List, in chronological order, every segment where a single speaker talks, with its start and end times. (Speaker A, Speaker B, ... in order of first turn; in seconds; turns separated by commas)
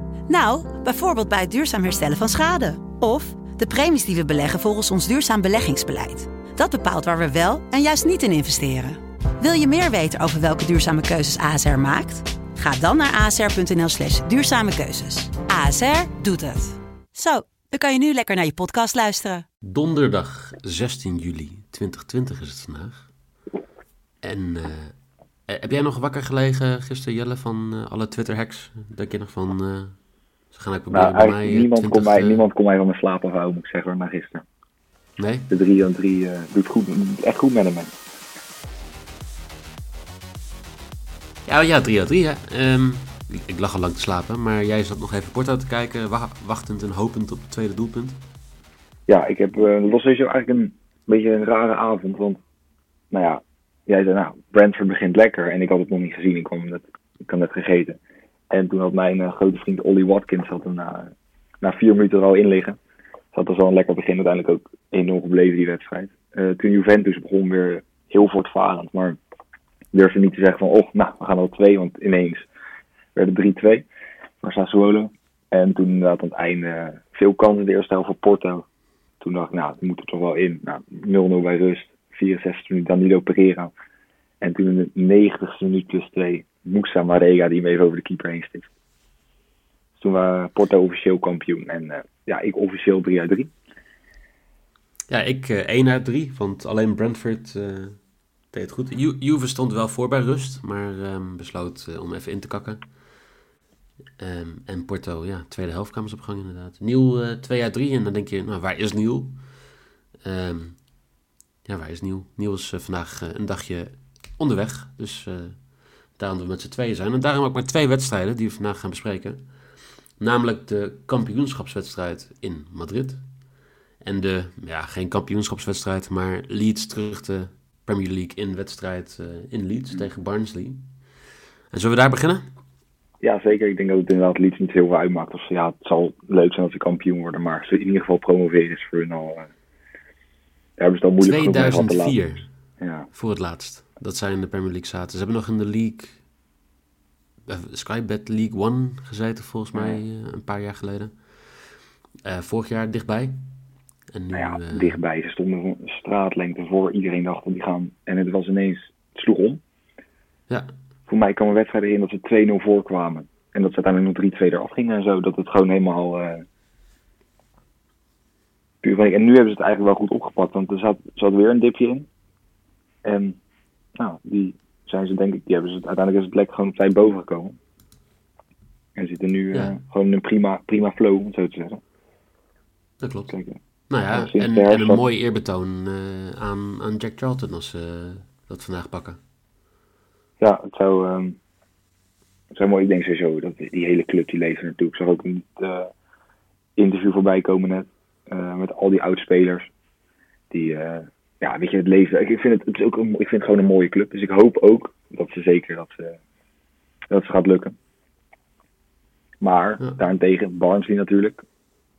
Speaker A: 0.3-19.5, Speaker B: 19.6-23.1, Speaker B: 24.2-25.0, Speaker B: 25.5-32.5, Speaker C: 30.9-34.5, Speaker B: 35.2-35.5, Speaker C: 35.5-37.9, Speaker B: 41.5-48.2, Speaker C: 49.1-52.4, Speaker C: 53.1-58.0, Speaker C: 58.5-62.8, Speaker C: 63.3-69.2, Speaker C: 69.9-72.5, Speaker C: 73.2-73.9, Speaker C: 74.4-78.7, Speaker C: 79.2-83.7, Speaker C: 84.4-88.7, Speaker C: 90.0-93.5, Speaker B: 95.1-103.0, Speaker B: 104.2-109.6, Speaker B: 110.2-110.9, Speaker B: 111.7-123.2, Speaker B: 124.0-130.9, Speaker B: 131.7-132.4, Speaker C: 133.2-139.5, Speaker C: 140.8-142.2, Speaker B: 141.2-142.5, Speaker C: 142.8-143.1, Speaker B: 143.1-146.2, Speaker B: 147.5-153.5, Speaker C: 149.8-150.0, Speaker B: 154.1-155.0, Speaker C: 154.3-159.6, Speaker C: 161.1-166.5, Speaker C: 168.8-172.1, Speaker C: 173.0-173.4, Speaker C: 174.0-177.6, Speaker C: 179.0-181.8, Speaker B: 183.0-183.3, Speaker C: 183.3-185.0, Speaker B: 183.9-189.2, Speaker C: 190.4-191.4, Speaker C: 192.5-195.9, Speaker C: 196.8-199.7, Speaker C: 200.5-206.2, Speaker C: 207.1-207.8, Speaker C: 209.4-211.4